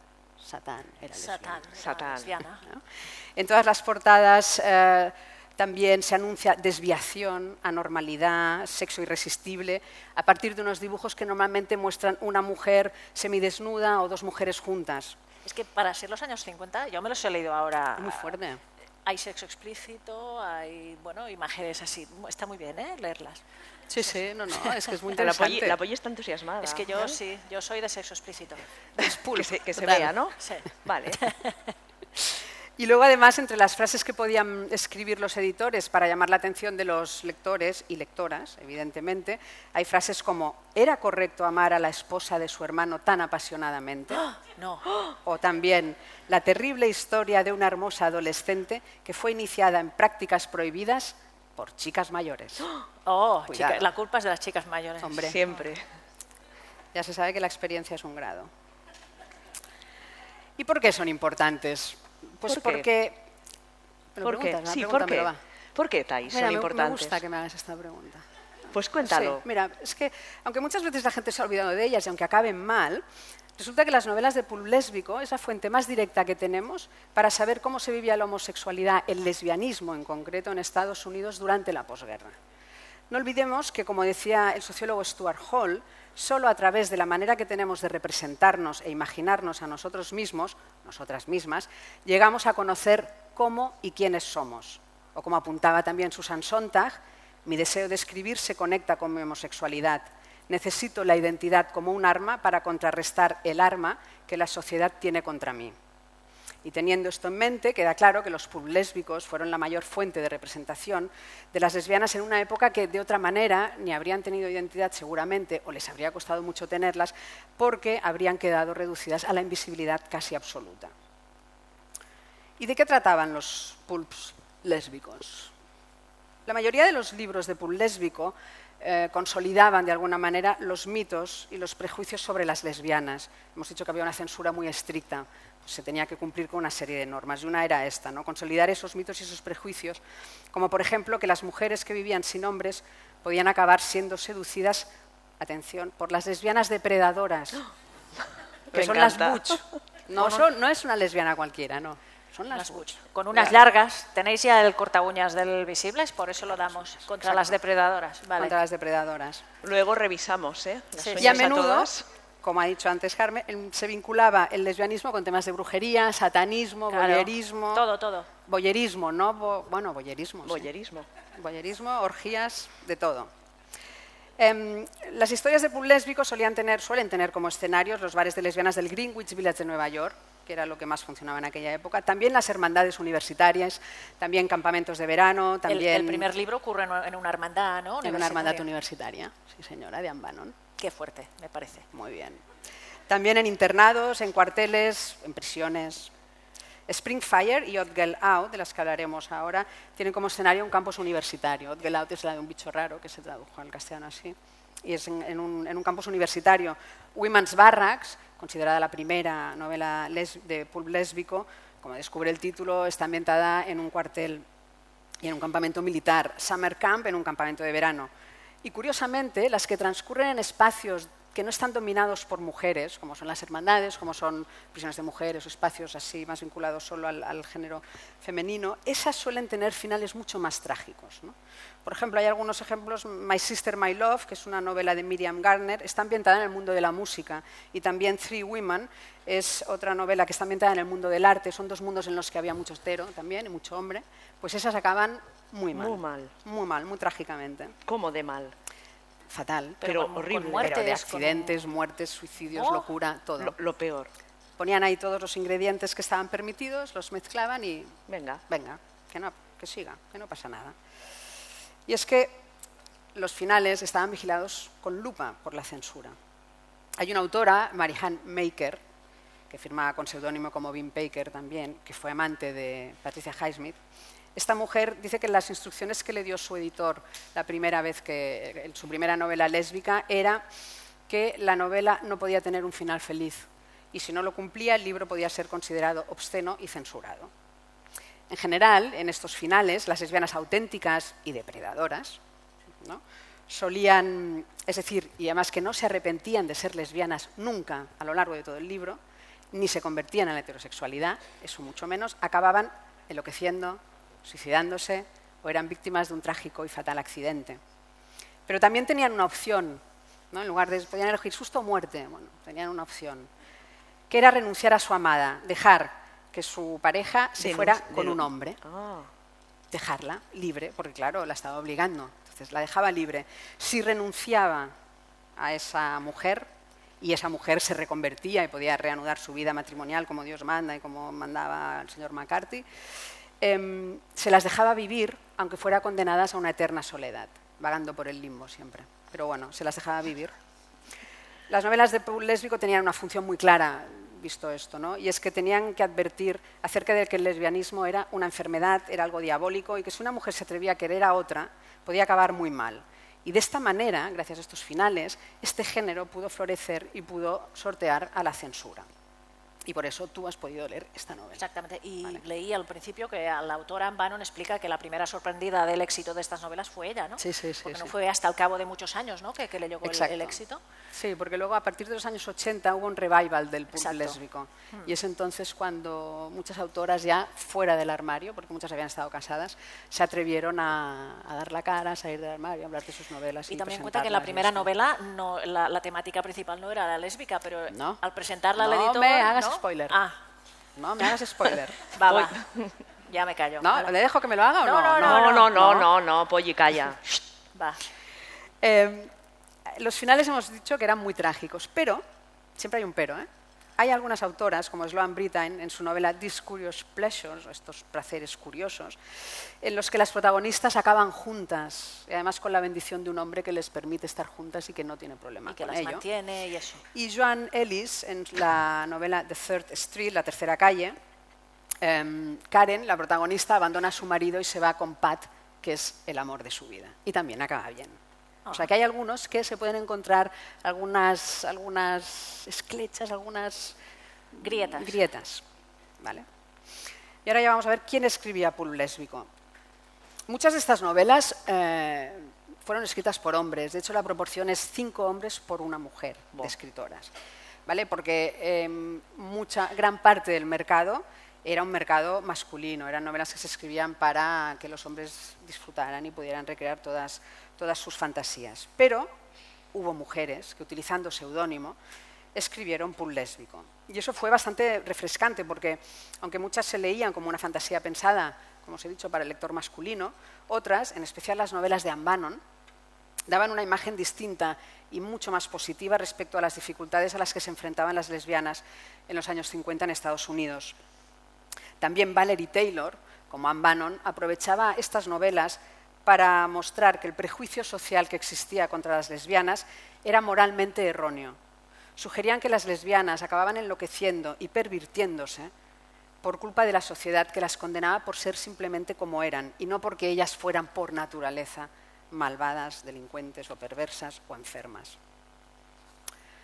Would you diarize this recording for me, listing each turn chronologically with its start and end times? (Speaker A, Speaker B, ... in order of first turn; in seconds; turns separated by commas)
Speaker A: 0.4-1.7, Speaker B: 1.1-2.6, Speaker C: 1.8-2.3, Speaker A: 3.4-15.2, Speaker B: 15.4-18.3, Speaker A: 18.0-18.6, Speaker B: 19.1-23.4, Speaker A: 23.9-25.8, Speaker C: 25.1-27.2, Speaker B: 26.6-28.6, Speaker A: 29.0-30.1, Speaker C: 29.0-31.3, Speaker B: 30.4-30.6, Speaker B: 31.2-31.6, Speaker A: 32.8-44.2, Speaker B: 44.6-44.9, Speaker A: 45.2-52.7, Speaker B: 53.0-55.4, Speaker A: 53.5-53.9, Speaker A: 55.0-55.4, Speaker C: 55.1-55.8, Speaker A: 56.9-58.5, Speaker A: 60.6-63.2, Speaker C: 62.5-62.9, Speaker A: 64.2-65.4, Speaker C: 64.2-67.2, Speaker A: 66.3-68.2, Speaker C: 68.7-69.4, Speaker A: 69.0-73.0, Speaker A: 73.6-82.3, Speaker A: 83.1-105.8, Speaker A: 106.6-120.9, Speaker A: 122.6-125.5, Speaker A: 126.5-140.0, Speaker A: 140.5-144.9, Speaker A: 145.4-147.7, Speaker C: 148.7-149.6, Speaker A: 148.7-153.6, Speaker B: 152.5-158.6, Speaker A: 157.2-157.6, Speaker A: 158.4-159.4, Speaker C: 159.6-162.1, Speaker B: 161.0-161.4, Speaker A: 161.2-167.9, Speaker B: 166.9-168.3, Speaker A: 168.5-170.7, Speaker C: 170.4-171.1, Speaker A: 171.4-173.3, Speaker A: 174.4-186.3, Speaker B: 185.7-188.7, Speaker A: 188.0-190.6, Speaker B: 190.8-191.9, Speaker A: 191.9-192.4, Speaker A: 193.1-196.1, Speaker A: 196.9-214.4, Speaker A: 215.2-218.1, Speaker A: 218.6-247.7, Speaker C: 245.7-246.3, Speaker C: 247.9-248.6, Speaker A: 249.3-253.6, Speaker C: 249.8-250.8, Speaker B: 249.8-251.6, Speaker B: 252.6-252.8, Speaker C: 253.4-254.1, Speaker A: 254.6-258.0, Speaker C: 258.1-258.4, Speaker A: 258.5-260.8, Speaker A: 261.9-262.4, Speaker A: 263.1-266.1, Speaker A: 267.0-268.8, Speaker A: 269.5-273.8, Speaker A: 274.4-280.4, Speaker A: 281.1-287.3, Speaker A: 288.3-292.2, Speaker A: 292.8-299.0, Speaker A: 299.5-307.6, Speaker A: 308.5-313.3, Speaker A: 314.1-318.6, Speaker C: 317.4-319.1, Speaker A: 319.7-324.7, Speaker A: 325.4-326.5, Speaker A: 327.0-332.7, Speaker A: 333.4-340.3, Speaker A: 341.5-358.9, Speaker A: 359.7-361.4, Speaker B: 361.4-370.6, Speaker A: 367.2-367.9, Speaker A: 369.8-370.4, Speaker A: 370.9-384.7, Speaker B: 373.8-374.2, Speaker B: 383.5-390.2, Speaker A: 387.7-388.0, Speaker A: 388.6-390.0, Speaker A: 390.8-391.8, Speaker B: 391.9-392.4, Speaker C: 392.1-392.6, Speaker B: 393.1-393.9, Speaker A: 393.6-395.9, Speaker B: 394.6-395.5, Speaker C: 395.0-397.0, Speaker B: 397.6-397.8, Speaker A: 398.6-399.1, Speaker A: 399.7-402.0, Speaker A: 402.6-403.3, Speaker A: 403.8-409.0, Speaker A: 409.6-416.0, Speaker B: 415.5-416.8, Speaker A: 416.9-420.9, Speaker A: 421.8-428.0, Speaker A: 428.5-433.8, Speaker A: 434.4-435.4, Speaker B: 434.4-435.0, Speaker A: 436.0-436.3, Speaker A: 437.2-439.3, Speaker A: 440.3-447.1, Speaker A: 447.7-459.1, Speaker A: 459.7-461.8, Speaker A: 462.3-472.4, Speaker A: 473.3-480.8, Speaker A: 481.8-491.4, Speaker A: 492.0-495.5, Speaker A: 496.2-505.0